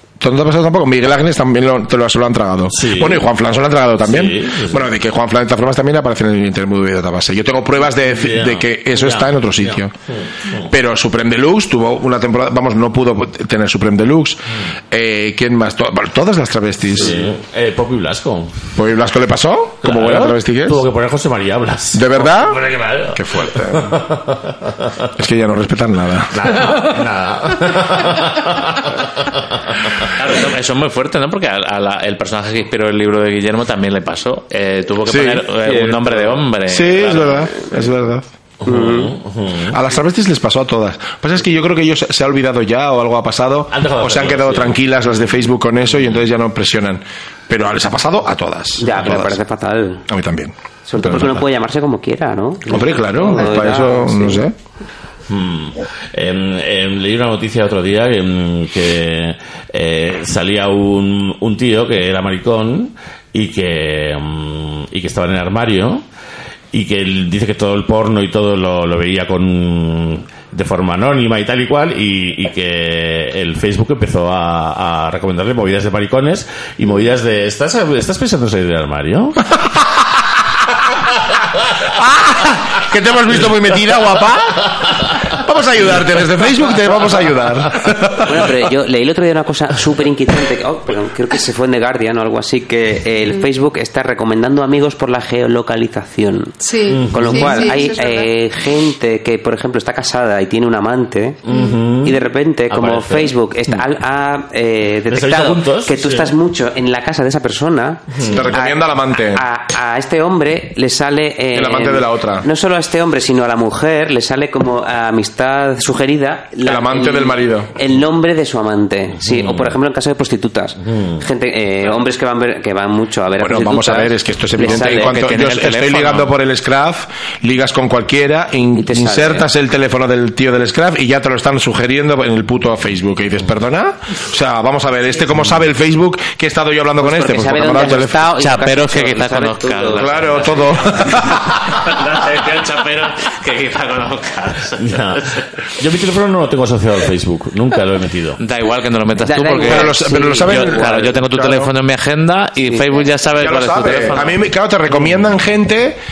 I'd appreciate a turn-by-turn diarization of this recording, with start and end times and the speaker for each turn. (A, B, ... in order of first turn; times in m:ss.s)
0:00.2-0:09.9 A
0:02.7-0:03.3 B
0:04.0-0:04.9 B
0:08.0-0:10.7 B
0:10.7-0:17.2 A
0:16.9-0:18.7 B
0:18.8-0:20.8 A
0:19.8-0:25.1 B
0:21.9-0:22.6 A
0:22.7-0:23.1 C
0:23.1-0:24.0 A
0:25.2-0:26.5 A
0:26.3-0:30.1 B
0:30.2-0:37.7 C
0:35.1-0:35.5 A
0:35.6-0:36.4 D
0:36.7-0:38.3 A
0:38.6-0:39.8 B
0:38.6-0:39.2 D
0:39.7-0:49.4 A
0:43.7-0:44.8 B
0:48.8-0:50.1 D
0:50.1-0:51.4 A
0:50.9-0:54.4 D
0:52.7-0:54.6 A
0:55.3-1:06.0 B
1:06.7-1:19.5 B
1:21.8-1:28.5 A
1:28.2-1:36.6 D
1:36.6-1:38.3 E
1:36.9-1:37.8 B
1:37.1-1:41.5 D
1:41.5-1:43.8 B
1:41.5-1:41.8 E
1:42.0-2:05.2 D
1:45.1-1:46.4 B
1:48.1-1:48.5 B
1:48.2-1:49.4 A
1:51.5-1:52.5 A
1:56.6-1:57.7 A
1:59.2-1:59.8 B
2:00.8-2:01.2 B
2:03.4-2:18.3 A
2:04.6-2:06.3 C
2:08.8-2:09.5 D
2:17.0-2:20.3 D
2:18.4-2:25.7 C
2:20.0-2:21.6 A
2:24.8-2:28.4 B
2:28.4-2:34.4 C
2:29.2-2:31.1 D
2:29.6-2:31.7 A
2:32.7-2:33.0 D
2:33.4-2:36.0 A